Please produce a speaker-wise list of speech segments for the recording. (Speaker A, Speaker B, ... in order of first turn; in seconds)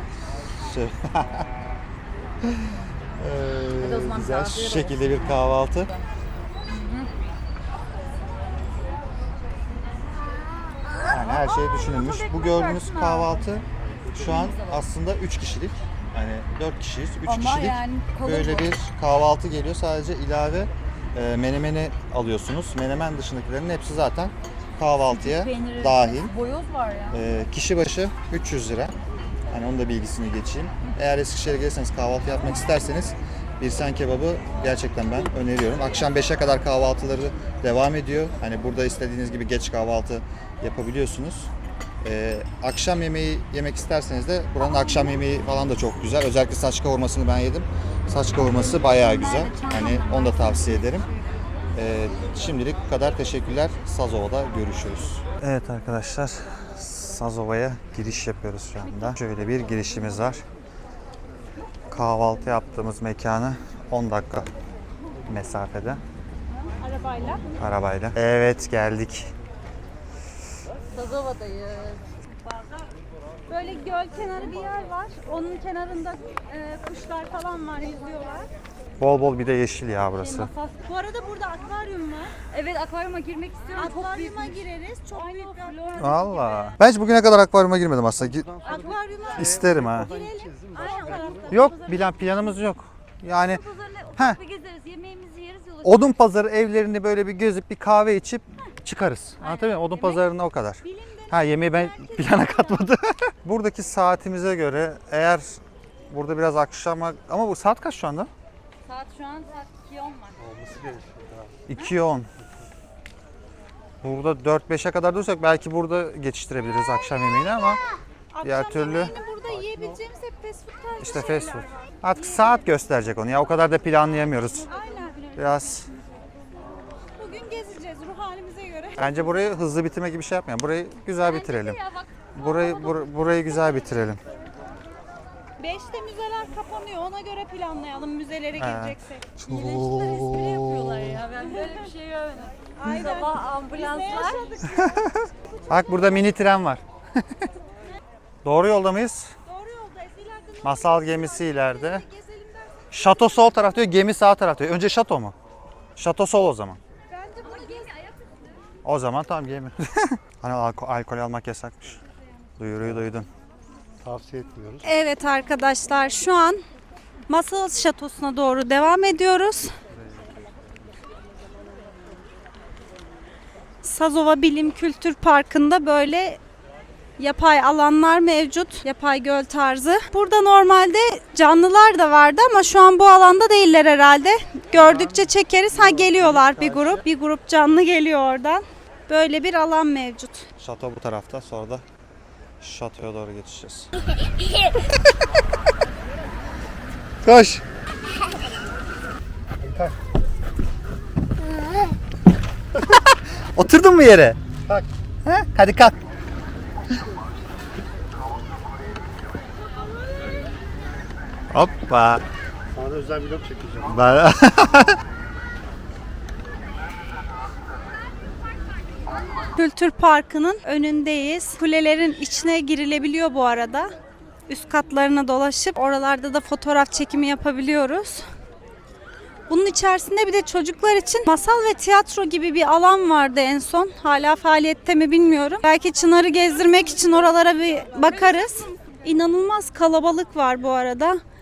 Speaker A: 0.6-1.5, 2.4-5.9, 11.1-26.3, 27.1-28.9, 29.5-51.1, 51.7-60.5, 61.9-64.5, 65.3-66.0, 67.6-69.3, 79.0-80.5, 86.0-88.5, 89.3-90.1, 91.5-93.6, 95.8-108.3, 111.7-112.3, 114.0-117.8, 118.4-119.1, 121.0-124.7, 125.4-125.9, 129.0-131.8, 132.3-134.2, 138.6-141.2, 144.6-147.5, 148.4-149.3, 150.6-152.1, 152.9-155.3, 156.0-156.8, 158.8-162.0, 162.6-163.3, 184.7-187.0, 190.6-191.8, 192.6-193.9, 194.7-195.4, 197.2-197.6, 199.6-199.9, 202.8-206.0, 211.5-212.2, 213.9-215.0
Speaker B: 3.8-6.1, 6.7-7.1, 11.0-13.4, 14.1-14.9, 17.3-18.7, 25.1-27.2, 49.3-50.6, 58.9-59.3, 70.9-72.1, 82.5-86.8, 88.6-90.0, 90.7-92.6, 93.3-96.2, 99.4-100.2, 100.8-101.3, 102.0-102.3, 108.8-110.4, 124.7-125.0, 131.2-133.8, 139.5-144.6, 157.4-158.6
Speaker C: 49.6-50.0, 66.8-67.4, 73.5-78.5, 80.2-82.4, 83.7-86.2, 88.7-91.7, 101.2-102.8, 118.3-122.7, 124.4-125.9, 127.2-129.1, 135.6-139.3, 141.5-141.9, 142.8-145.1, 149.5-152.8, 157.1-157.9, 164.8-166.6, 167.3-169.7, 173.8-176.4, 177.2-190.5, 219.6-223.9, 224.5-228.3, 229.5-241.2
Speaker D: 88.2-91.6, 110.4-111.6, 119.4-120.0, 162.8-163.1, 164.0-164.9, 212.7-214.0